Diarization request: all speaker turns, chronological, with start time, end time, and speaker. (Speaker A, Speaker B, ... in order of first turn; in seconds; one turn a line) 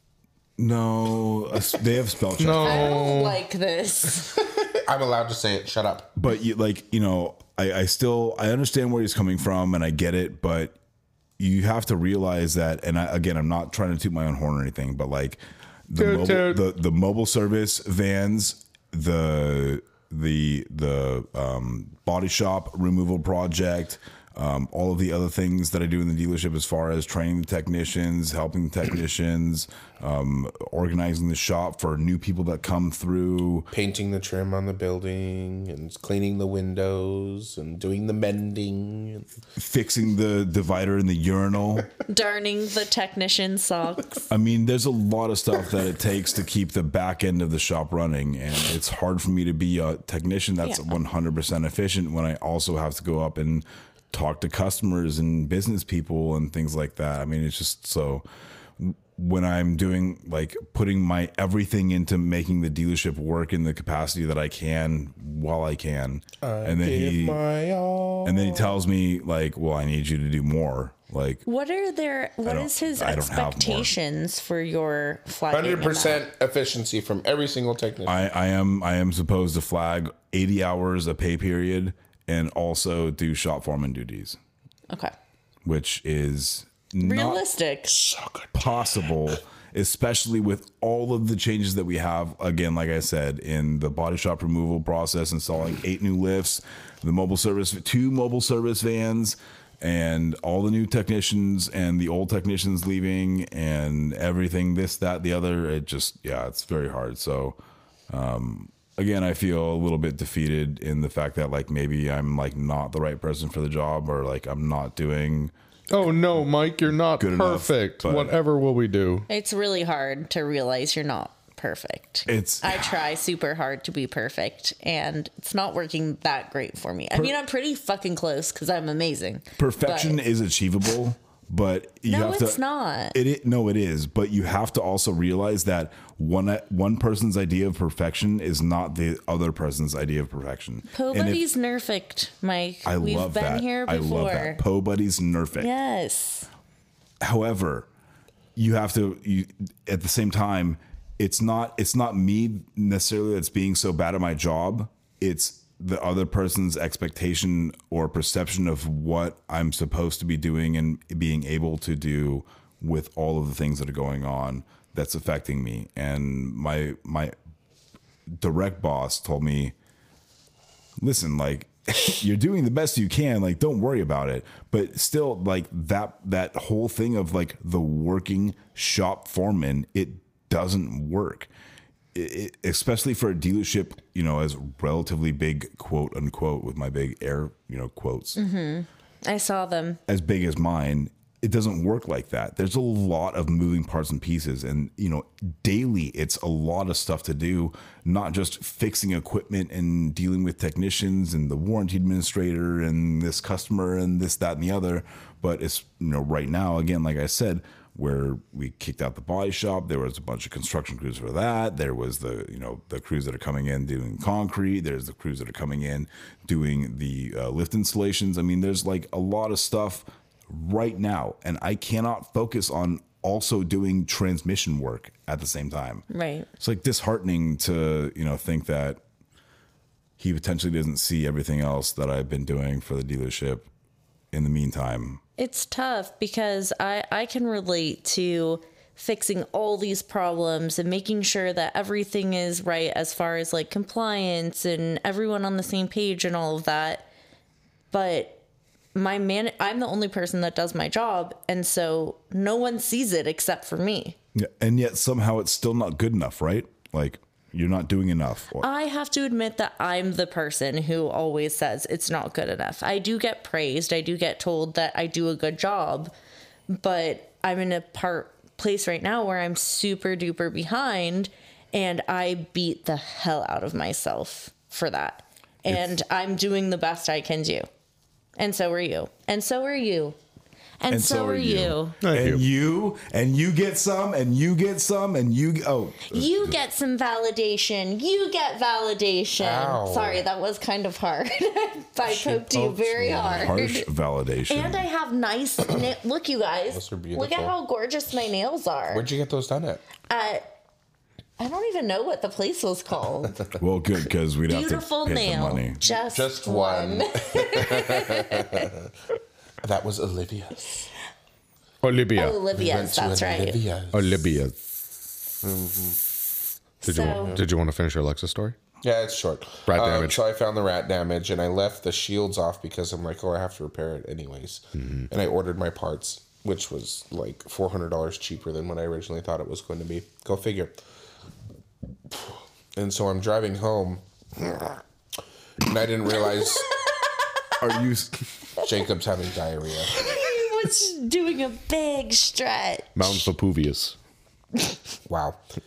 Speaker A: 0.6-3.1
Speaker B: 2.4-3.4
Speaker C: 2.6-4.4
Speaker D: 4.6-6.1
Speaker A: 6.2-10.8
Speaker A: 11.4-33.7
Speaker B: 16.0-16.6
Speaker D: 33.7-39.3
Speaker A: 39.6-41.9
Speaker C: 42.1-44.3
Speaker A: 44.3-58.2
Speaker C: 50.6-51.0
Speaker A: 58.8-67.4
Speaker D: 66.4-68.8
Speaker A: 68.2-71.4
Speaker C: 71.5-76.2
Speaker A: 72.5-73.9
Speaker D: 75.5-78.2
Speaker A: 78.1-84.4
Speaker A: 85.7-87.4
Speaker C: 87.0-87.9
Speaker D: 88.0-88.5
Speaker A: 88.5-107.6
Speaker A: 108.1-115.5
Speaker B: 115.9-119.3
Speaker A: 117.2-118.3
Speaker C: 119.3-130.2
Speaker A: 122.3-122.8
Speaker A: 129.6-132.6
Speaker C: 132.1-133.2
Speaker A: 133.1-141.4
Speaker C: 140.9-144.6
Speaker A: 142.8-145.7
Speaker C: 145.6-146.5
Speaker A: 147.2-147.9
Speaker A: 148.6-167.3
Speaker A: 168.4-169.7
Speaker A: 171.0-181.5
Speaker A: 182.2-188.4
Speaker C: 188.3-190.0
Speaker A: 190.1-226.0
Speaker C: 226.1-226.5
Speaker A: 226.6-229.0
Speaker A: 230.2-233.7
Speaker A: 234.3-235.2
Speaker C: 235.4-247.1
Speaker C: 247.9-248.4
Speaker C: 248.9-254.2
Speaker A: 254.4-258.7
Speaker C: 258.6-266.1
Speaker C: 266.7-277.7
Speaker C: 278.4-280.2
Speaker C: 280.8-282.0
Speaker A: 280.9-286.6
Speaker B: 282.0-282.4
Speaker C: 286.1-293.9
Speaker D: 289.4-290.2
Speaker B: 292.2-293.3
Speaker D: 292.2-293.4
Speaker A: 293.3-294.9
Speaker C: 294.5-299.1
Speaker D: 296.7-297.6
Speaker D: 298.9-299.8
Speaker C: 300.1-300.4
Speaker C: 301.4-303.4
Speaker A: 303.6-305.8
Speaker C: 304.5-308.6
Speaker D: 305.9-308.9
Speaker D: 309.6-310.8
Speaker B: 311.8-312.4
Speaker C: 312.2-313.6
Speaker D: 312.5-314.2
Speaker B: 313.9-314.6
Speaker D: 315.4-316.0
Speaker C: 316.8-317.4
Speaker B: 316.8-318.6
Speaker D: 317.0-317.4
Speaker D: 318.8-330.8
Speaker B: 319.7-320.2
Speaker B: 324.8-325.1
Speaker D: 332.8-334.8
Speaker D: 335.6-336.7
Speaker C: 336.7-337.1
Speaker A: 337.6-338.1
Speaker D: 338.6-340.1
Speaker C: 339.9-343.2
Speaker B: 343.0-344.0
Speaker D: 345.1-345.4